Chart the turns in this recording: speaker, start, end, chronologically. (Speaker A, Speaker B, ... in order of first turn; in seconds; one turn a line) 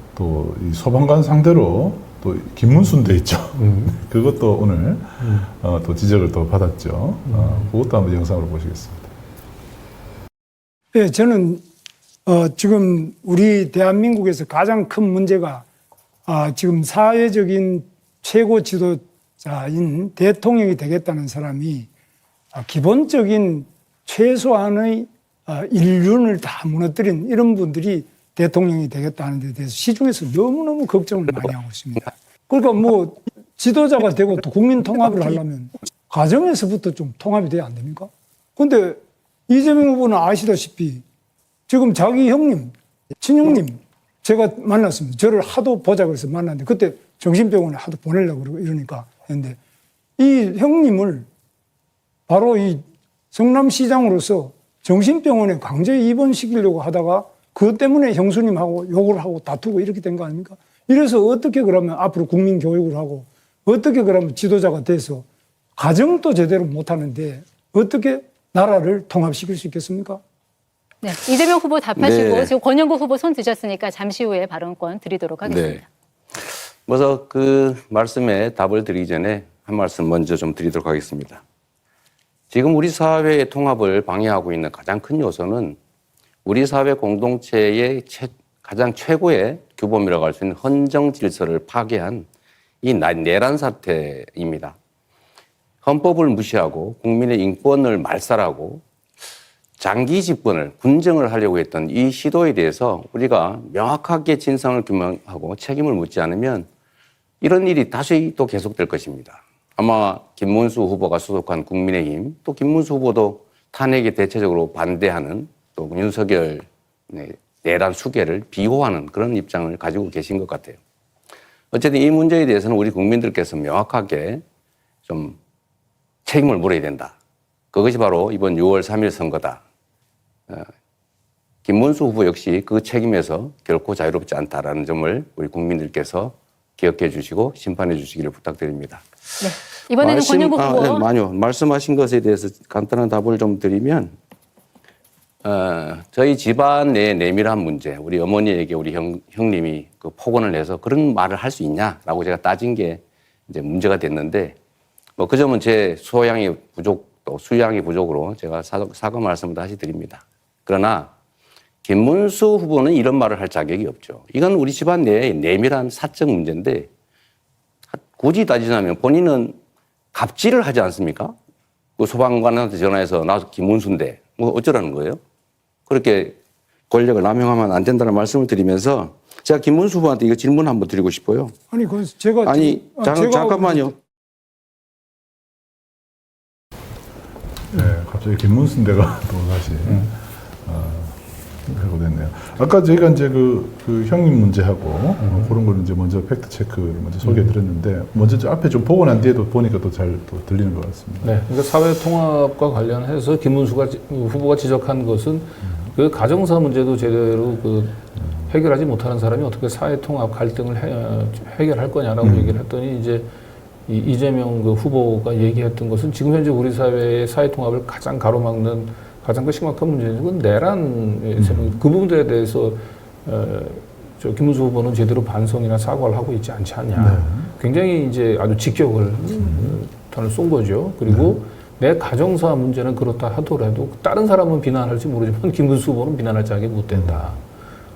Speaker A: 0.2-9.1
Speaker B: 3.5-4.0
Speaker B: 5.2-5.5
Speaker B: 7.3-7.7
Speaker C: 10.9-11.7
Speaker C: 12.3-15.7
Speaker C: 16.3-21.9
Speaker C: 22.5-41.0
Speaker C: 41.7-49.6
Speaker C: 50.2-51.3
Speaker C: 52.3-65.2
Speaker C: 65.8-70.2
Speaker D: 71.0-75.8
Speaker E: 72.0-72.6
Speaker E: 75.4-75.8
Speaker E: 76.3-81.4
Speaker E: 82.5-85.8
Speaker E: 86.5-92.3
Speaker E: 92.8-94.8
Speaker E: 95.8-98.8
Speaker E: 99.8-106.7
Speaker E: 107.4-120.8
Speaker E: 121.7-124.4
Speaker E: 125.1-125.4
Speaker E: 126.3-127.2
Speaker E: 127.7-129.6
Speaker E: 131.7-139.1
Speaker D: 139.4-141.1
Speaker E: 140.0-144.2
Speaker E: 145.4-154.6
Speaker E: 155.2-161.1
Speaker E: 161.8-166.9
Speaker E: 167.9-169.6
Speaker E: 170.1-171.4
Speaker E: 172.0-175.2
Speaker E: 175.9-176.4
Speaker E: 176.9-181.5
Speaker C: 181.7-183.9
Speaker E: 182.4-183.9
Speaker A: 187.7-201.4
Speaker B: 195.2-195.6
Speaker B: 197.2-197.6
Speaker B: 201.2-213.3
Speaker A: 212.2-212.6
Speaker B: 213.9-237.4
Speaker A: 221.4-221.8
Speaker A: 227.0-227.5
Speaker A: 229.4-229.8
Speaker A: 231.1-231.3
Speaker A: 236.9-237.2